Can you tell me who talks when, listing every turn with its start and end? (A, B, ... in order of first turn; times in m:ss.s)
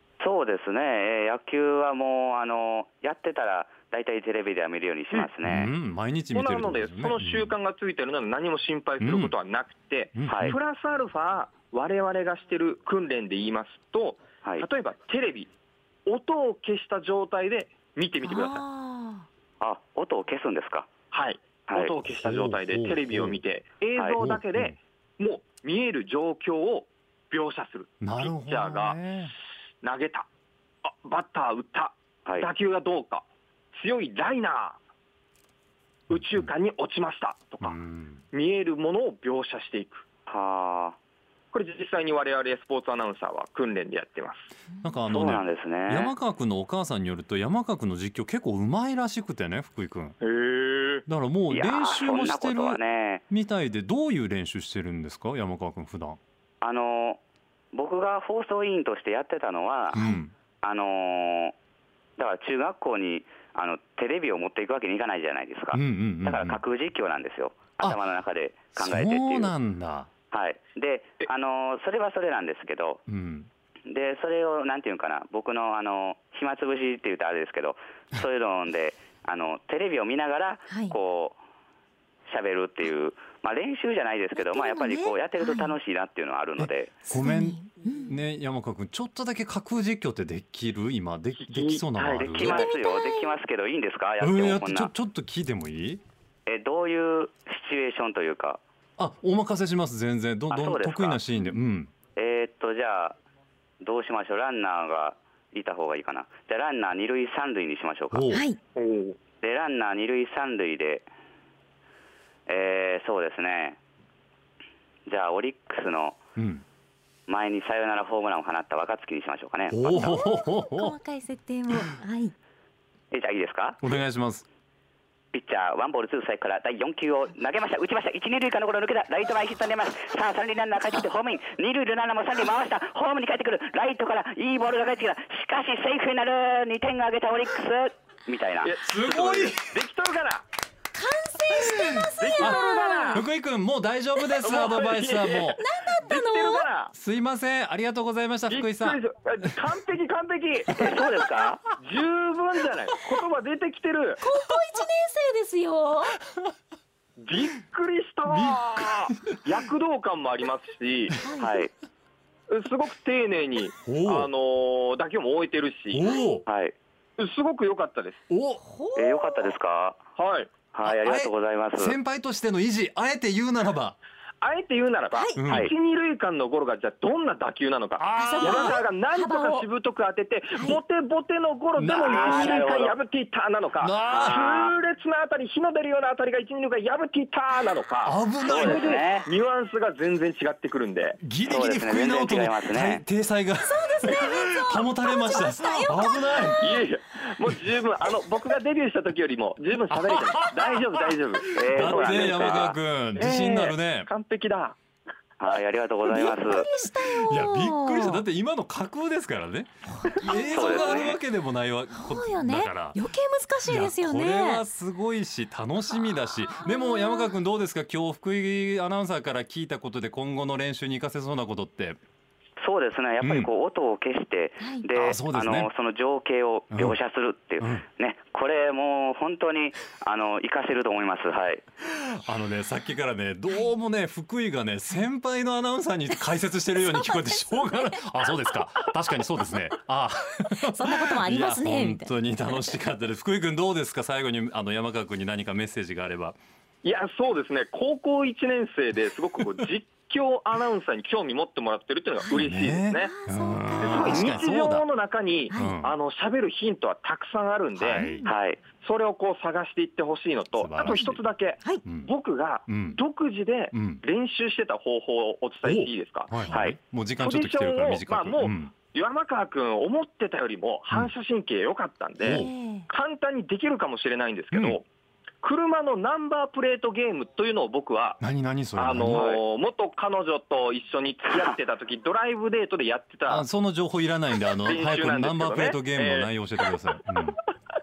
0:00.2-0:05.7 A
0:05.4-0:07.5 B
0:06.3-0:15.5 C
0:09.0-0:09.3 B
0:10.2-0:10.6 B
0:10.3-0:10.5 A
0:16.0-0:18.6 C
0:18.2-0:19.2 D
0:19.6-0:20.9 A
0:21.1-0:29.0 C
0:22.2-0:23.4 B
0:24.2-0:24.8 B
0:28.0-0:29.3 B
0:29.8-0:30.3 C
0:30.8-0:34.8 C
0:36.1-0:37.8 C
0:36.1-0:36.5 B
0:37.6-0:38.2 B
0:38.3-0:40.0 C
0:40.3-0:41.0 A
0:41.5-0:44.5 C
0:44.8-0:50.2 B
0:45.1-0:46.1 A
0:50.2-0:51.0 C
0:51.1-0:56.2 B
0:51.5-0:53.2 A
0:56.6-0:57.2 A
0:57.7-1:01.5 A
0:59.9-1:00.3 B
1:02.2-1:09.5 A
1:05.7-1:06.6 B
1:08.8-1:10.1 B
1:10.3-1:13.0 A
1:13.1-1:13.5 B
1:13.9-1:21.4 A
1:20.7-1:20.9 D
1:22.3-1:26.9 A
1:24.4-1:25.8 D
1:26.6-1:32.6 B
1:27.1-1:28.1 D
1:31.4-1:32.5 C
1:32.2-1:34.9 A
1:32.4-1:33.3 D
1:34.2-1:36.0 B
1:36.5-1:38.6 A
1:39.0-1:41.9 B
1:40.5-1:41.2 A
1:42.2-1:43.2 A
1:43.8-1:48.3 A
1:48.1-1:48.4 B
1:48.3-1:48.6 D
1:49.4-1:51.1 A
1:52.5-1:53.8 A
1:55.1-1:56.2 A
1:56.4-1:56.6 B
1:57.3-2:00.1 A
1:59.7-2:01.0 B
1:59.9-2:02.3 D
2:03.1-2:03.8 A
2:03.8-2:04.4 B
2:05.3-2:18.7 A
2:18.6-2:20.4 C
2:18.8-2:19.7 B
2:20.9-2:23.2 D
2:21.6-2:22.6 B
2:22.2-2:23.2 C
2:23.1-2:25.6 B
2:24.4-2:26.7 D
2:24.4-2:26.9 C
2:26.9-2:29.0 B
2:28.5-2:30.9 C
2:30.7-2:31.6 A
2:31.8-2:34.2 C
2:34.2-2:36.2 D
2:37.2-2:41.2 C
2:38.3-2:39.4 B
2:41.2-2:41.6 D
2:41.4-2:41.7 A
2:42.5-2:46.1 C
2:43.8-2:44.3 B
2:45.9-2:46.4 B
2:46.5-2:46.7 A
2:47.2-2:48.2 C
2:48.3-2:48.6 B
2:48.6-2:49.6 D
2:49.0-2:50.0 A
2:50.2-2:50.6 C
2:50.7-2:52.0 A
2:50.8-2:54.0 B
2:54.4-3:11.2 C
2:55.1-2:55.5 D
2:55.4-2:55.7 B
2:58.0-2:58.8 B
2:58.1-2:59.7 D
3:00.5-3:00.8 D
3:01.8-3:02.7 B
3:02.1-3:03.0 A
3:03.8-3:04.4 B
3:04.1-3:04.7 A
3:08.0-3:09.0 B
3:08.4-3:09.3 A
3:11.2-3:16.8 B
3:11.5-3:13.0 A
3:13.6-3:16.8 D
3:16.6-3:24.8 C
3:19.9-3:24.1 B
3:21.5-3:22.8 A
3:25.4-3:26.7 A
3:26.0-3:28.2 D
3:27.0-3:33.0 B
3:29.9-3:31.1 D
3:30.5-3:31.2 A
3:31.9-3:34.6 D
3:33.6-3:42.0 B
3:36.5-3:37.3 D
3:42.6-3:51.6 A
3:43.2-3:43.5 B
3:44.6-3:44.9 D
3:44.9-3:45.7 B
3:46.7-3:47.0 B
3:47.6-3:47.8 B
3:52.0-4:06.4 B
4:00.6-4:02.1 D
4:06.8-4:13.1 C
4:12.2-4:14.6 D
4:12.3-4:14.8 B
4:13.7-4:18.1 C
4:15.5-4:15.8 D
4:15.5-4:15.9 B
4:17.8-4:18.2 B
4:18.0-4:18.3 D
4:18.2-4:18.6 A
4:18.6-4:26.4 C
4:20.6-4:21.2 B
4:20.8-4:21.8 D
4:21.8-4:22.1 B
4:22.7-4:23.0 B
4:23.7-4:24.0 B
4:25.6-4:28.7 B
4:27.2-4:34.8 C
4:32.2-4:32.9 D
4:32.2-4:32.5 B
4:34.5-4:34.8 B
4:35.4-4:38.2 C
4:38.2-4:39.4 B
4:38.8-4:43.4 C
4:39.1-4:39.4 A
4:43.3-4:47.4 B
4:44.6-4:46.3 C